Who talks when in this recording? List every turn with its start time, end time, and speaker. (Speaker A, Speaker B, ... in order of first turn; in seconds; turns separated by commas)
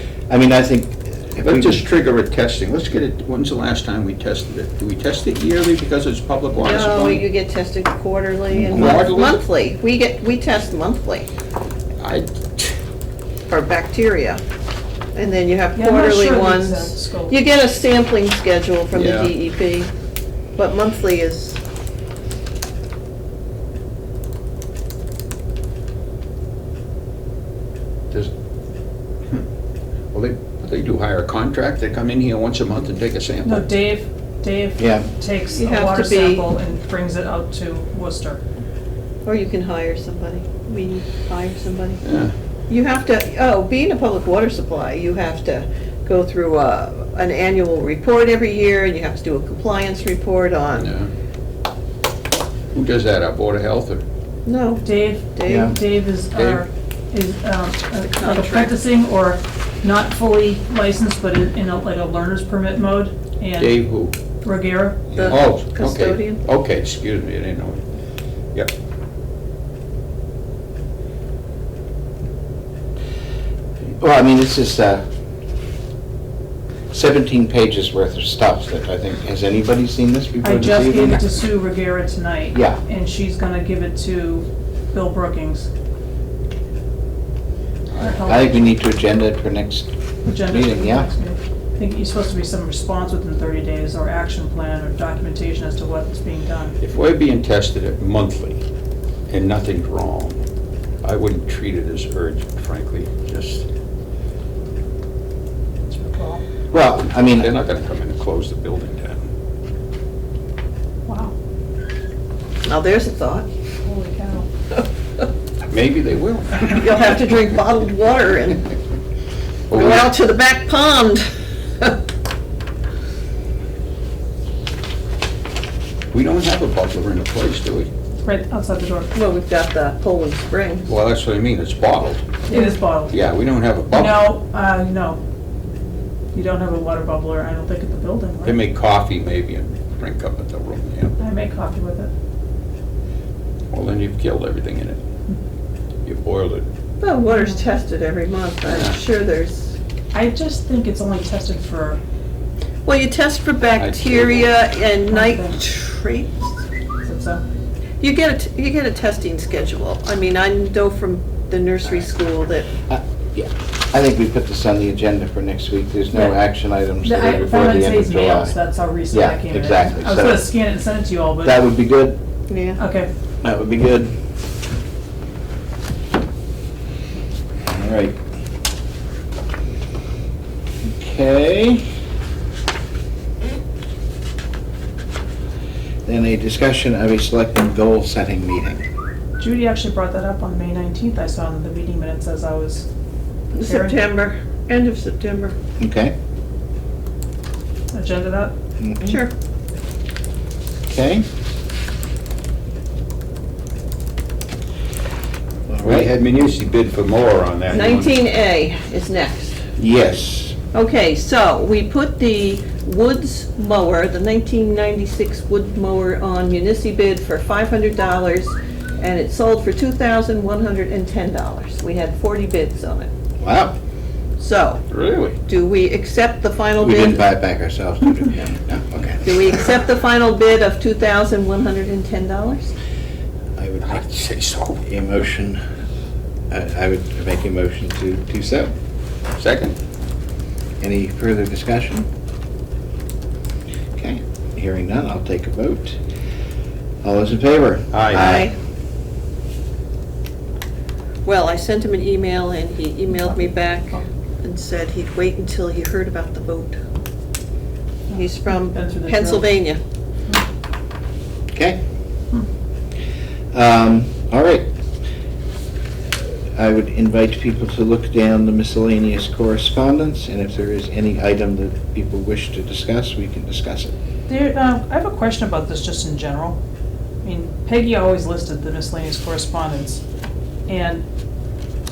Speaker A: 0.3-1.8, Speaker B: 1.4-7.2, Speaker C: 6.5-11.3, Speaker A: 8.5-9.0, Speaker B: 8.7-9.4, Speaker B: 12.0-12.8, Speaker C: 13.5-14.4, Speaker C: 15.1-19.9, Speaker D: 15.7-17.4, Speaker B: 18.9-19.3, Speaker C: 20.6-21.6, Speaker B: 30.1-33.7, Speaker D: 33.4-38.4, Speaker A: 34.8-35.1, Speaker C: 35.5-36.5, Speaker C: 39.2-42.0, Speaker B: 42.0-42.3, Speaker C: 42.7-50.9, Speaker B: 50.8-51.1, Speaker B: 52.7-54.0, Speaker C: 54.5-55.7, Speaker D: 54.8-63.8, Speaker A: 55.5-55.7, Speaker B: 56.3-56.6, Speaker C: 58.1-58.8, Speaker B: 63.6-64.1, Speaker D: 64.4-65.1, Speaker C: 65.1-66.4, Speaker B: 65.1-67.8, Speaker A: 74.0-75.0, Speaker A: 76.9-81.2, Speaker D: 80.4-85.7, Speaker A: 82.5-82.8, Speaker D: 88.0-88.7, Speaker A: 88.2-89.9, Speaker D: 90.2-96.7, Speaker A: 90.5-91.1, Speaker B: 96.8-98.6, Speaker B: 99.3-100.4, Speaker B: 101.0-103.6, Speaker D: 105.9-106.4, Speaker A: 106.7-107.5, Speaker B: 106.7-109.2, Speaker D: 111.0-111.3, Speaker C: 112.6-113.5, Speaker D: 113.8-114.5, Speaker B: 115.7-116.9, Speaker C: 116.6-118.7, Speaker B: 119.7-120.1, Speaker C: 119.7-121.3, Speaker B: 126.1-127.9, Speaker D: 128.2-129.1, Speaker C: 129.1-130.9, Speaker B: 130.9-132.4, Speaker D: 132.5-133.2, Speaker B: 133.1-134.3, Speaker D: 133.9-135.2, Speaker D: 136.3-138.6, Speaker B: 138.4-141.2, Speaker D: 141.2-142.1, Speaker B: 143.7-145.0, Speaker B: 146.0-146.7, Speaker C: 147.0-149.8, Speaker D: 147.2-147.6, Speaker B: 148.7-149.0, Speaker D: 150.1-152.0, Speaker C: 152.8-156.6, Speaker B: 153.8-154.5, Speaker D: 155.1-155.6, Speaker D: 157.0-157.4, Speaker C: 158.0-162.7, Speaker A: 162.9-168.6, Speaker D: 167.0-171.6, Speaker A: 169.1-170.5, Speaker A: 171.4-172.2, Speaker C: 172.5-172.8, Speaker D: 172.8-173.1, Speaker A: 173.4-174.1, Speaker A: 177.6-178.2, Speaker A: 180.8-181.9, Speaker A: 186.0-188.9, Speaker D: 189.4-192.8, Speaker D: 193.5-194.0, Speaker C: 193.5-195.6, Speaker A: 195.8-196.1, Speaker D: 197.9-198.5, Speaker A: 198.8-199.2, Speaker C: 199.0-199.3, Speaker A: 200.9-201.2, Speaker A: 205.7-206.1, Speaker B: 205.8-208.1, Speaker C: 207.7-209.6, Speaker A: 209.8-210.6, Speaker C: 210.7-223.1, Speaker A: 223.4-223.8, Speaker C: 224.4-224.8, Speaker B: 224.9-225.4, Speaker C: 225.4-227.2, Speaker A: 226.8-229.2, Speaker C: 229.2-232.7, Speaker A: 233.6-234.0, Speaker B: 233.8-234.8, Speaker A: 234.8-235.6, Speaker A: 236.5-238.7, Speaker B: 239.3-239.8, Speaker A: 240.8-242.1, Speaker A: 243.9-246.0, Speaker A: 247.0-248.5, Speaker B: 247.9-248.4, Speaker C: 248.1-248.5, Speaker C: 251.2-256.8, Speaker D: 253.1-254.0, Speaker D: 258.1-259.5, Speaker C: 258.1-259.8, Speaker A: 261.5-261.8, Speaker A: 263.5-264.7, Speaker A: 266.2-273.9, Speaker D: 274.3-276.6, Speaker D: 277.2-280.0, Speaker D: 280.7-281.0